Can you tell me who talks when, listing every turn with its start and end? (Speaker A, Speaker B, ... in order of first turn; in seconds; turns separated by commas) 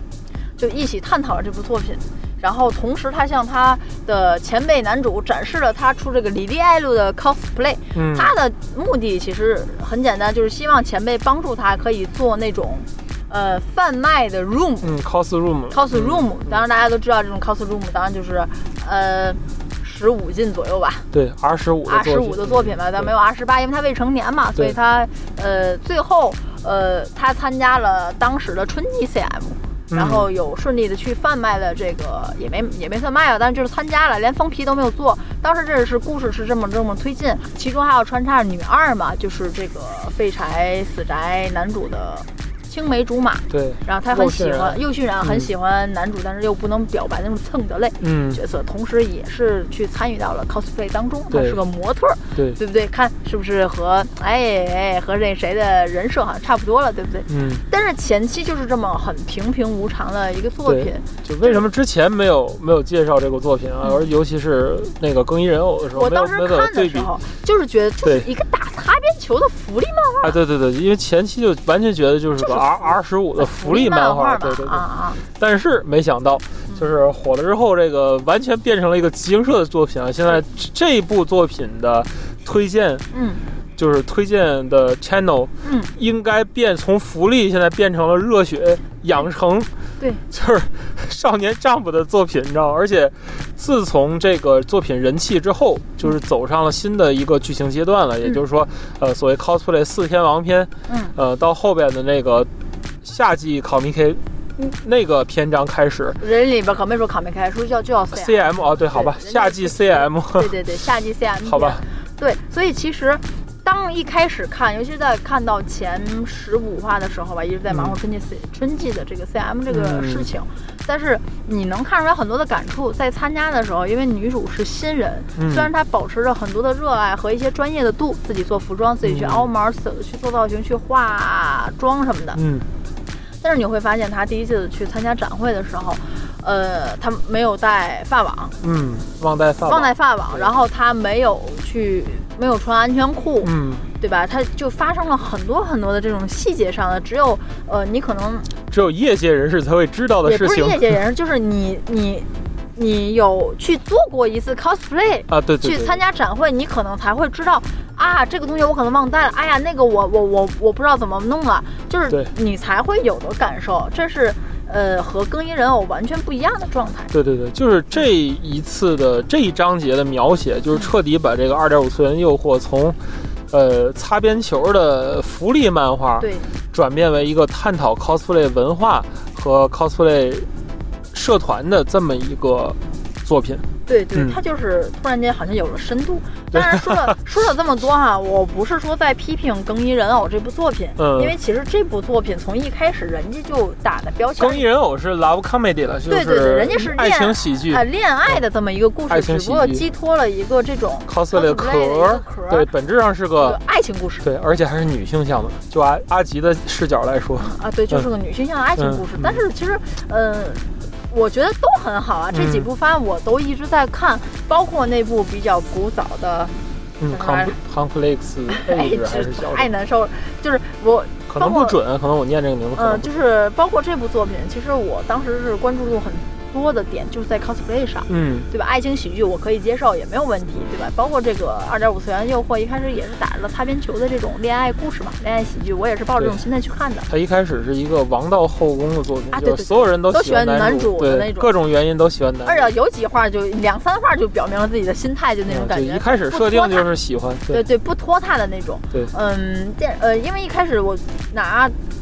Speaker A: 0.6-14.9, Speaker B: 7.9-8.3, Speaker B: 14.8-16.6, Speaker A: 15.7-21.1, Speaker B: 21.1-23.1, Speaker A: 21.9-61.7, Speaker B: 29.9-30.3, Speaker B: 43.5-45.5, Speaker B: 48.0-48.4, Speaker B: 51.3-51.6, Speaker B: 57.3-57.6, Speaker B: 60.7-67.1, Speaker A: 63.8-64.1, Speaker A: 65.9-70.4, Speaker B: 70.2-74.8, Speaker A: 72.4-75.2, Speaker B: 75.3-83.0, Speaker A: 83.1-83.4, Speaker B: 83.8-89.7, Speaker A: 85.6-85.9, Speaker B: 90.3-102.5, Speaker A: 100.9-101.2, Speaker B: 103.0-106.2, Speaker A: 106.2-132.4, Speaker B: 108.1-110.5, Speaker B: 111.4-111.8, Speaker B: 117.7-118.0, Speaker B: 119.7-120.3, Speaker B: 125.4-125.7, Speaker B: 129.0-129.5, Speaker B: 132.3-132.7, Speaker A: 133.4-138.6, Speaker B: 138.6-140.5, Speaker A: 139.7-148.5, Speaker B: 143.4-143.9, Speaker B: 148.7-150.9, Speaker A: 150.2-167.1, Speaker B: 155.3-156.0, Speaker B: 167.1-173.0, Speaker B: 173.5-180.5, Speaker A: 176.2-176.5, Speaker B: 181.1-184.4, Speaker A: 183.9-194.6, Speaker B: 186.5-187.2, Speaker B: 191.0-191.3, Speaker B: 194.4-197.8, Speaker A: 196.1-202.7, Speaker B: 199.1-199.8, Speaker B: 201.1-203.6, Speaker A: 203.4-204.2, Speaker B: 204.2-208.1, Speaker A: 207.4-216.5, Speaker B: 208.8-209.4, Speaker B: 212.3-212.7, Speaker B: 217.0-219.7, Speaker A: 217.1-217.6, Speaker A: 218.5-221.8, Speaker B: 221.3-223.1, Speaker A: 222.8-237.1, Speaker B: 228.1-228.5, Speaker B: 237.1-242.7, Speaker A: 239.3-241.5, Speaker A: 242.4-246.9, Speaker B: 245.5-247.6, Speaker A: 247.5-251.8